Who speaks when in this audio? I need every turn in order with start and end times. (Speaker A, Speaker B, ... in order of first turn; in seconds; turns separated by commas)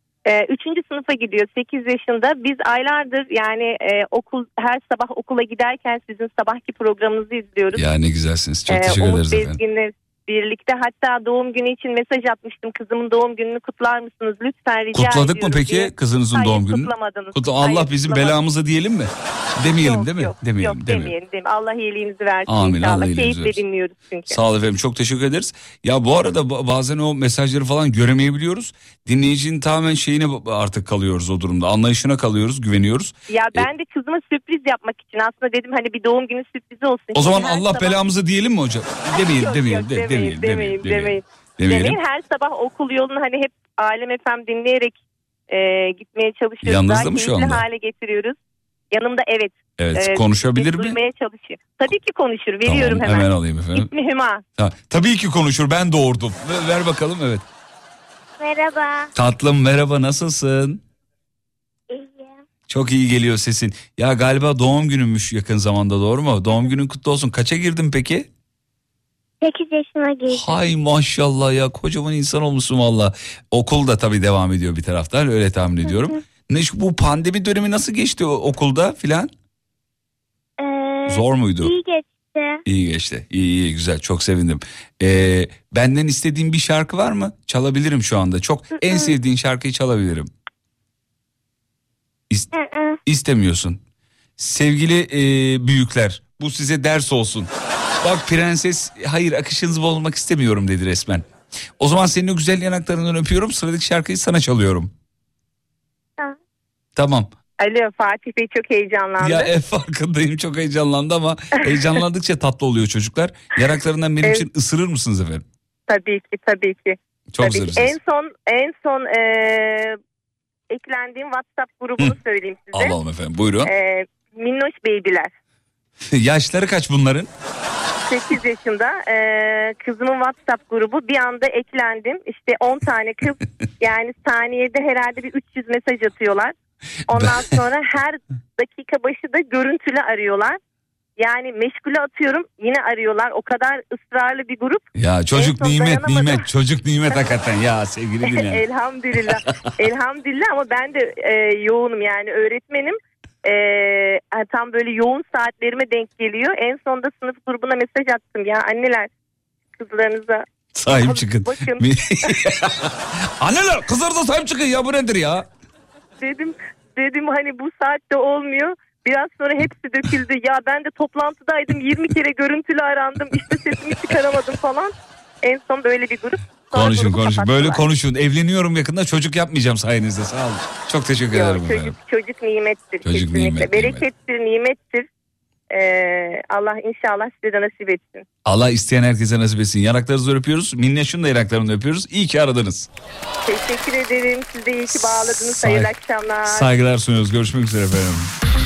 Speaker A: 0.3-7.9, Speaker B: 7.8-9.6, Speaker A: 8.7-18.4, Speaker B: 14.9-21.1, Speaker A: 19.7-24.4, Speaker B: 22.5-23.6, Speaker B: 24.3-33.7, Speaker A: 33.3-38.0, Speaker B: 37.1-42.0, Speaker A: 39.1-45.0, Speaker A: 45.5-48.4, Speaker B: 46.6-47.6, Speaker A: 48.9-54.4, Speaker B: 49.8-51.0, Speaker B: 52.6-53.9, Speaker B: 54.6-57.4, Speaker C: 58.4-59.1, Speaker B: 59.1-60.8, Speaker C: 61.9-62.4, Speaker B: 62.7-68.3, Speaker C: 69.4-70.6, Speaker B: 70.3-79.3, Speaker C: 75.8-76.2, Speaker C: 80.6-82.6, Speaker B: 81.1-81.7, Speaker B: 82.7-90.3, Speaker C: 88.8-89.1, Speaker C: 92.5-93.0, Speaker B: 93.0-93.8, Speaker B: 94.4-97.5, Speaker B: 98.0-101.2, Speaker B: 101.8-104.9, Speaker B: 107.0-107.3, Speaker A: 107.6-109.5, Speaker B: 109.2-115.5, Speaker A: 111.8-112.0, Speaker A: 115.9-120.0, Speaker B: 117.3-118.0, Speaker A: 120.7-123.0, Speaker B: 122.7-123.7, Speaker A: 123.6-125.3, Speaker B: 126.1-127.3, Speaker A: 128.1-136.5, Speaker B: 137.1-137.6, Speaker A: 137.1-140.6, Speaker A: 141.2-146.5, Speaker B: 145.0-149.7, Speaker A: 148.2-159.1, Speaker A: 159.8-162.4, Speaker B: 160.8-165.5, Speaker A: 166.2-177.8, Speaker B: 176.7-181.9, Speaker A: 181.3-185.1, Speaker B: 183.0-184.1, Speaker A: 185.7-188.2, Speaker B: 188.4-192.9, Speaker A: 193.4-196.7, Speaker B: 195.0-195.9, Speaker B: 196.4-198.3